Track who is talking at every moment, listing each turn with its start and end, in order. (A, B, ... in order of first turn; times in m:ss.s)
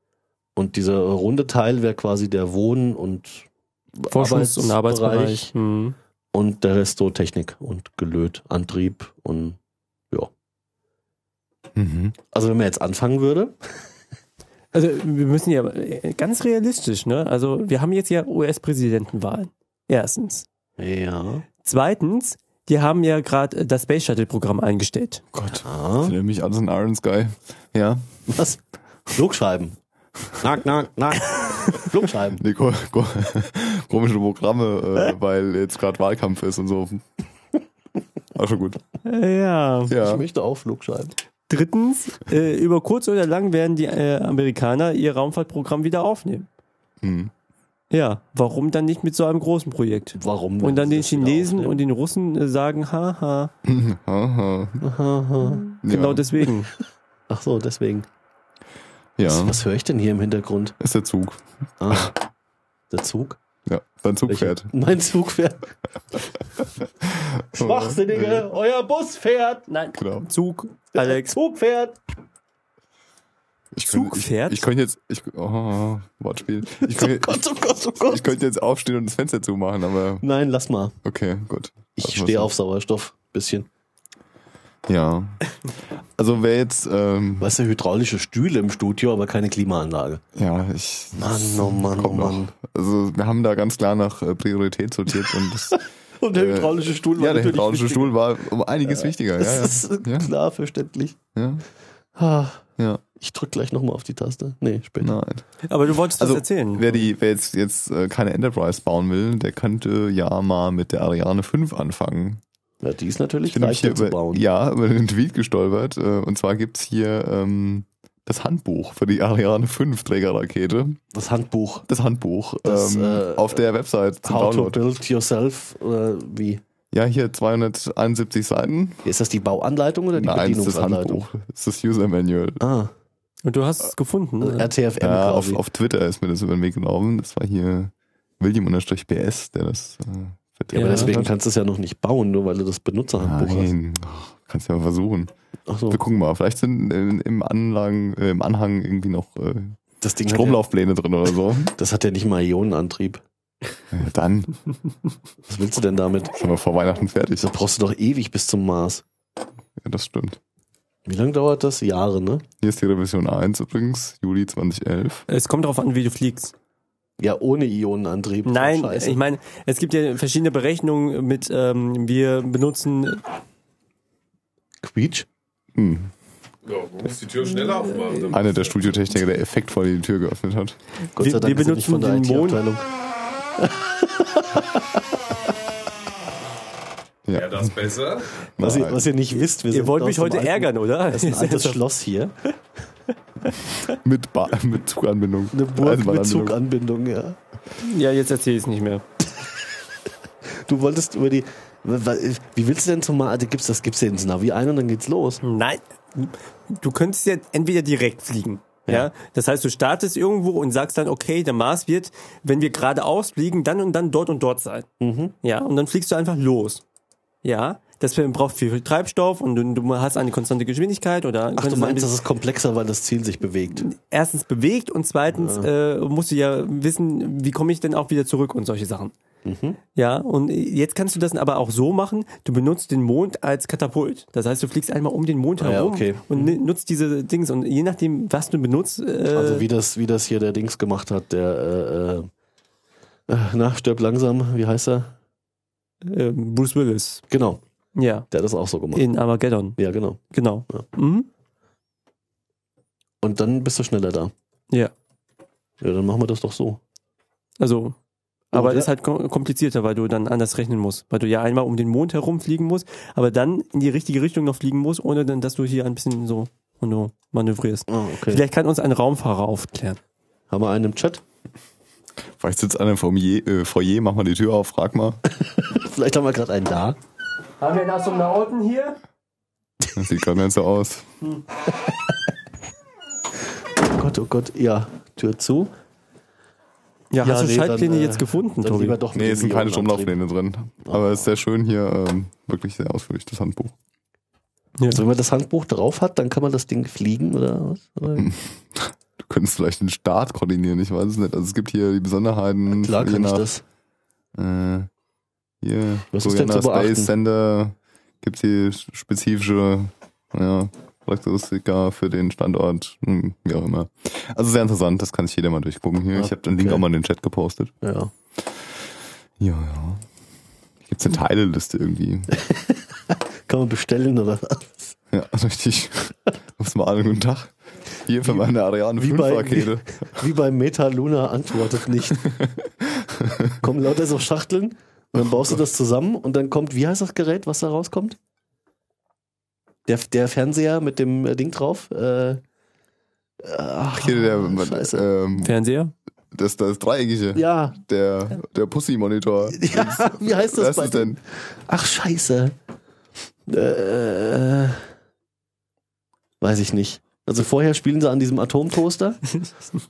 0:00.6-0:03.5 A
0:04.0-0:05.5 A
0:04.1-0:06.0 B
0:06.3-0:09.6 A
0:11.8-0:12.2 C
0:12.3-0:13.6 A
0:14.7-0:20.4 B
0:20.8-0:21.4 A
0:21.6-0:25.2 B
0:25.3-0:28.0 C
0:25.6-0:26.2 A
0:28.3-0:29.8 A
0:30.4-0:32.4 A
0:32.4-0:37.0 C
0:38.4-0:38.8 C
0:39.0-0:39.9 B
0:39.9-0:40.2 C
0:40.0-0:41.2 A
0:41.5-0:46.5 B
0:47.0-0:47.3 C
0:47.9-0:53.5 B
0:50.2-0:51.8 A
0:53.6-0:54.8 C
0:54.8-0:55.6 A
0:55.4-0:56.7 B
0:55.8-0:56.2 C
0:57.3-0:58.1 A
0:59.2-0:59.6 C
0:59.3-1:00.8 A
1:00.8-1:02.1 C
1:01.8-1:02.2 A
1:02.9-1:03.4 A
1:03.7-1:04.7 C
1:04.3-1:05.7 A
1:07.0-1:08.5 C
1:07.5-1:09.6 A
1:09.7-1:11.4 B
1:10.0-1:10.3 C
1:11.0-1:12.0 A
1:13.7-1:17.4 C
1:13.8-1:14.7 B
1:16.8-1:18.3 A
1:18.0-1:20.2 C
1:20.2-1:21.0 A
1:21.0-1:22.5 C
1:22.0-1:23.7 A
1:24.9-1:25.4 C
1:26.2-1:27.5 C
1:27.4-1:30.2 A
1:30.4-1:40.3 C
1:31.2-1:32.5 A
1:36.2-1:38.2 A
1:38.8-1:41.2 A
1:41.4-1:41.6 C
1:42.2-1:42.7 A
1:43.2-1:45.2 A
1:45.0-1:52.4 C
1:45.7-1:46.9 B
1:52.8-1:54.4 A
1:53.5-2:01.0 C
2:01.1-2:01.9 A
2:01.9-2:04.8 C
2:02.6-2:03.6 A
2:04.2-2:06.6 A
2:06.9-2:09.1 C
2:09.0-2:11.2 A
2:10.1-2:12.6 C
2:12.6-2:12.9 A
2:13.4-2:14.7 B
2:14.4-2:15.6 A
2:15.0-2:21.3 C
2:20.7-2:21.2 B
2:20.7-2:23.7 A
2:23.2-2:25.3 C
2:25.7-2:26.0 A
2:25.9-2:31.7 C
2:30.0-2:30.6 A
2:31.8-2:33.2 A
2:33.9-2:34.6 C
2:35.4-2:36.3 A
2:36.3-2:37.6 C
2:37.4-2:39.0 A
2:39.8-2:40.4 C
2:41.1-2:42.4 A
2:42.6-2:45.2 C
2:45.3-2:46.5 B
2:47.2-2:49.2 A
2:48.4-2:53.2 B
2:54.8-2:55.3 A
2:55.7-2:56.1 C
2:56.6-2:58.6 D
2:57.6-2:58.4 B
2:58.3-3:00.8 C
3:01.2-3:02.8 A
3:01.2-3:02.6 B
3:03.6-3:04.8 A
3:07.3-3:08.0 C
3:07.3-3:08.3 D
3:08.6-3:09.1 C
3:08.6-3:12.3 A
3:09.7-3:11.8 B
3:13.9-3:16.6 C
3:15.5-3:17.4 A
3:17.8-3:19.0 B
3:20.7-3:25.4 A
3:25.4-3:34.9 B
3:35.0-3:35.4 A
3:35.4-3:36.8 B
3:37.4-3:42.1 B
3:41.6-3:43.9 A
3:43.8-3:49.1 B
3:45.3-3:45.7 A
3:49.4-3:49.8 A
3:50.0-3:59.7 B
3:55.6-3:56.5 A
3:59.3-4:02.3 A
4:03.3-4:05.1 A
4:06.0-4:07.2 B
4:07.3-4:07.6 A
4:08.0-4:08.3 B
4:08.3-4:09.1 A
4:08.9-4:11.3 B
4:09.8-4:10.8 A
4:13.2-4:14.3 A
4:15.8-4:16.8 A
4:17.6-4:18.0 B
4:18.5-4:18.9 A
4:18.5-4:30.0 B
4:27.9-4:28.4 A
4:30.5-4:31.2 A
4:32.4-4:35.2 C
4:35.6-4:37.0 A
4:37.6-4:39.0 B
4:40.0-4:41.1 C
4:43.9-4:45.7 A
4:47.1-4:49.0 B
4:47.2-4:50.2 A
4:49.1-4:53.7 C
4:54.9-4:58.3 A
4:58.2-5:03.5 C
5:02.7-5:03.6 A
5:04.4-5:04.9 C
5:05.6-5:17.7 C
5:06.1-5:07.1 A
5:16.1-5:16.8 A
5:17.8-5:18.1 A
5:19.4-5:20.0 C
5:20.9-5:22.3 C
5:22.4-5:25.0 A
5:25.1-5:30.2 C
5:29.0-5:32.3 A
5:32.3-5:33.6 C
5:33.6-5:38.2 A
5:35.2-5:35.4 C
5:39.9-5:42.4 A
5:43.4-5:45.0 A
5:44.0-5:45.5 C
5:45.4-5:45.9 B
5:46.3-5:51.2 C
5:47.4-5:47.8 A
5:49.6-5:52.5 A
5:53.5-5:54.8 A
5:56.4-5:59.4 A